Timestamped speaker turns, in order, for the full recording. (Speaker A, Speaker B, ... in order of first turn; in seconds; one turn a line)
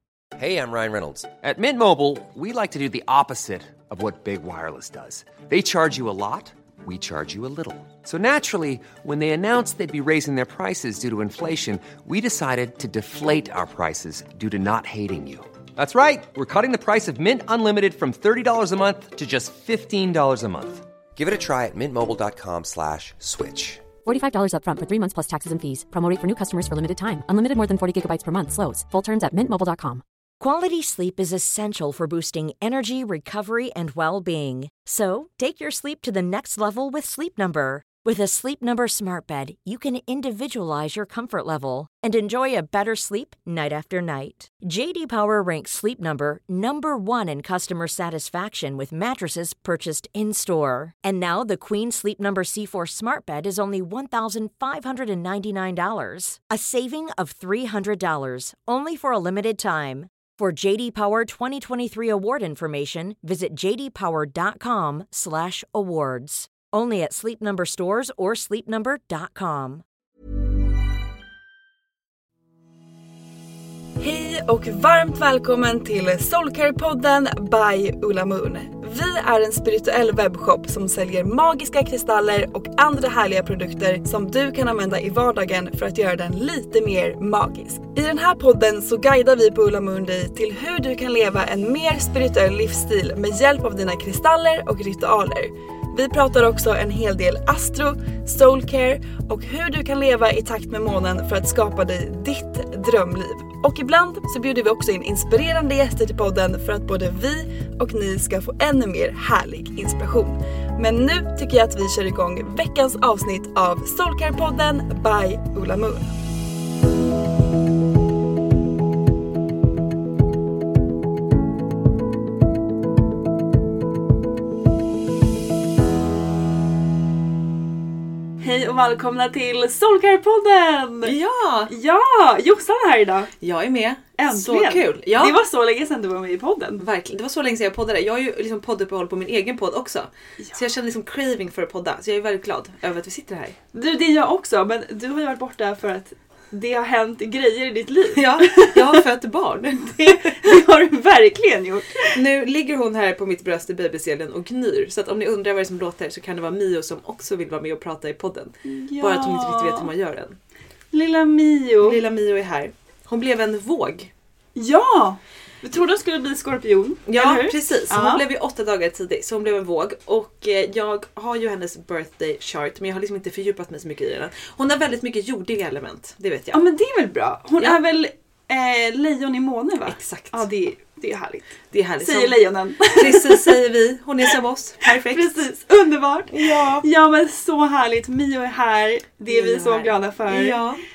Speaker A: 0.4-23.8
Speaker B: 24.0-30.0
Speaker C: 30.4-69.8
Speaker D: 74.0-116.0
Speaker D: 128.4-131.1
Speaker E: 131.0-131.7
Speaker D: 131.7-133.3
Speaker E: 133.4-135.4
Speaker D: 134.2-136.8
Speaker E: 136.8-143.6
Speaker D: 143.7-149.0
Speaker E: 148.1-150.4
Speaker D: 150.0-152.2
Speaker E: 152.1-160.4
Speaker D: 158.6-159.9
Speaker D: 160.9-162.0
Speaker E: 161.8-164.1
Speaker D: 164.6-168.2
Speaker E: 167.1-176.6
Speaker D: 176.5-183.6
Speaker E: 179.9-180.4
Speaker E: 181.7-182.4
Speaker E: 182.9-185.4
Speaker D: 184.8-190.6
Speaker E: 186.3-186.8
Speaker E: 189.3-190.8